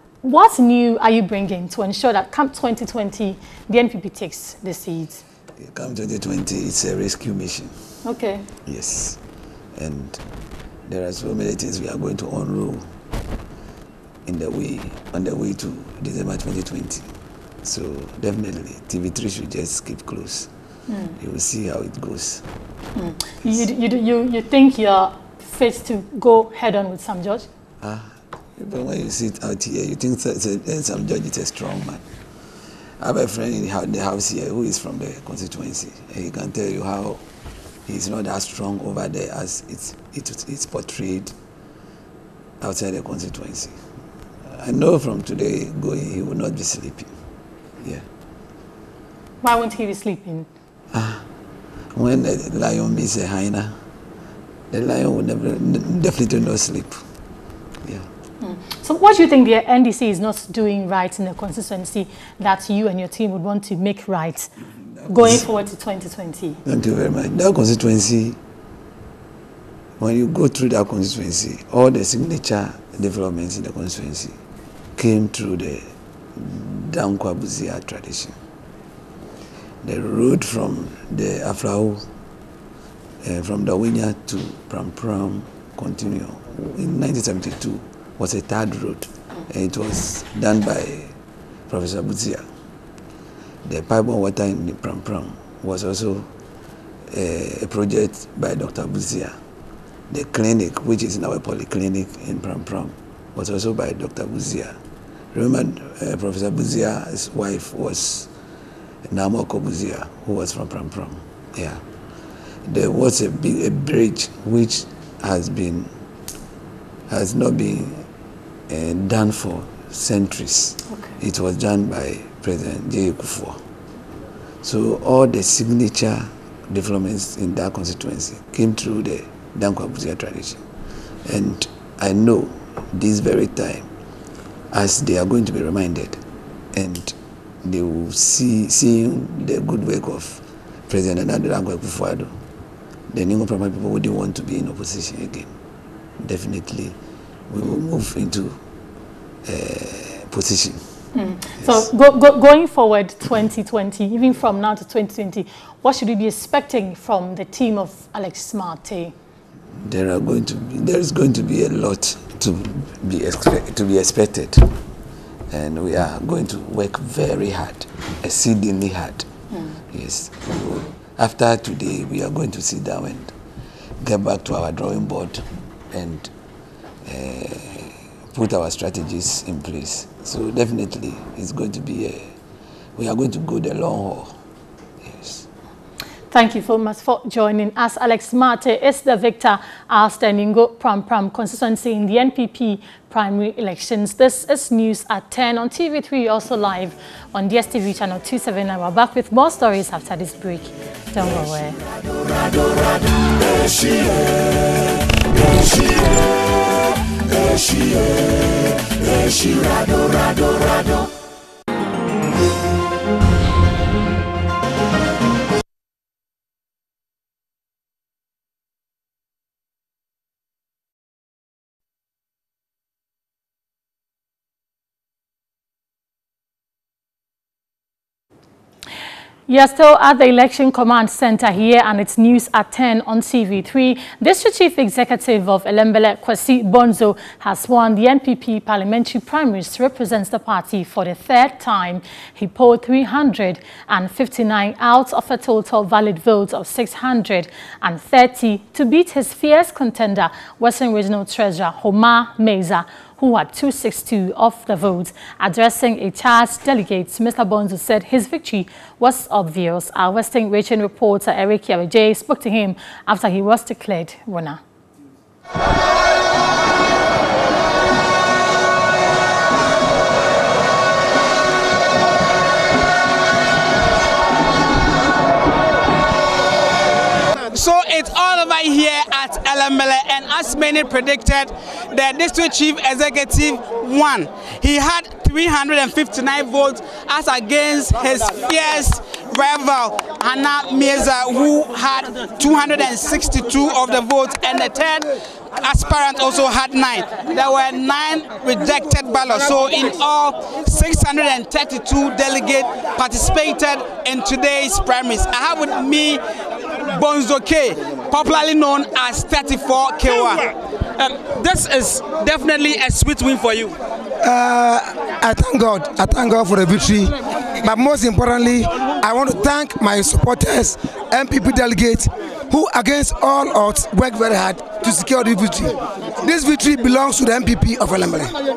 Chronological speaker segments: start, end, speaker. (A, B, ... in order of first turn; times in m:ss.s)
0:00.2-0:05.2 A
0:05.6-0:07.9 B
0:08.0-0:08.5 A
0:08.6-0:09.2 B
0:09.7-0:10.2 B
0:10.8-0:13.0 B
0:14.2-0:17.1 B
0:17.6-0:20.5 B
0:20.9-0:21.2 A
0:21.2-0:22.5 B
0:22.9-0:27.4 A
0:27.8-0:32.0 B
0:33.0-0:37.2 B
0:37.8-0:41.3 B
0:42.6-0:43.9 B
0:44.4-0:47.2 B
0:47.8-0:48.0 B
0:49.4-0:50.5 A
0:50.9-0:51.3 B
0:51.9-0:53.8 B
0:54.7-0:57.1 B
0:57.8-0:58.1 B
0:58.4-1:04.5 A
1:05.0-1:05.5 B
1:05.1-1:06.6 A
1:06.6-1:08.4 B
1:10.0-1:14.4 B
1:15.0-1:18.4 B
1:19.8-1:22.1 B
1:23.2-1:31.1 B
1:31.7-1:32.5 B
1:33.6-1:36.3 B
1:37.1-1:39.4 B
1:40.1-1:44.8 B
1:45.3-1:48.3 B
1:49.0-1:51.8 B
1:52.6-1:55.9 B
1:57.1-1:58.1 B
1:58.7-2:03.6 B
2:00.9-2:01.1 A
2:04.6-2:10.6 B
2:11.2-2:13.9 B
2:14.7-2:16.2 B
2:16.7-2:22.4 B
2:23.1-2:25.5 B
2:26.2-2:27.0 B
2:27.5-2:28.6 B
2:29.4-2:30.9 B
2:31.1-2:39.1 A
2:31.6-2:31.8 B
2:39.8-2:44.8 B
2:45.5-2:49.3 B
2:49.5-2:49.8 A
2:49.9-2:53.3 B
2:54.0-2:56.3 B
2:57.0-3:02.3 B
3:02.9-3:04.4 B
3:05.0-3:05.5 B
3:06.3-3:21.8 A
3:49.5-4:24.6 A
4:37.5-5:06.2 C
5:06.8-5:13.8 C
5:14.2-5:28.4 D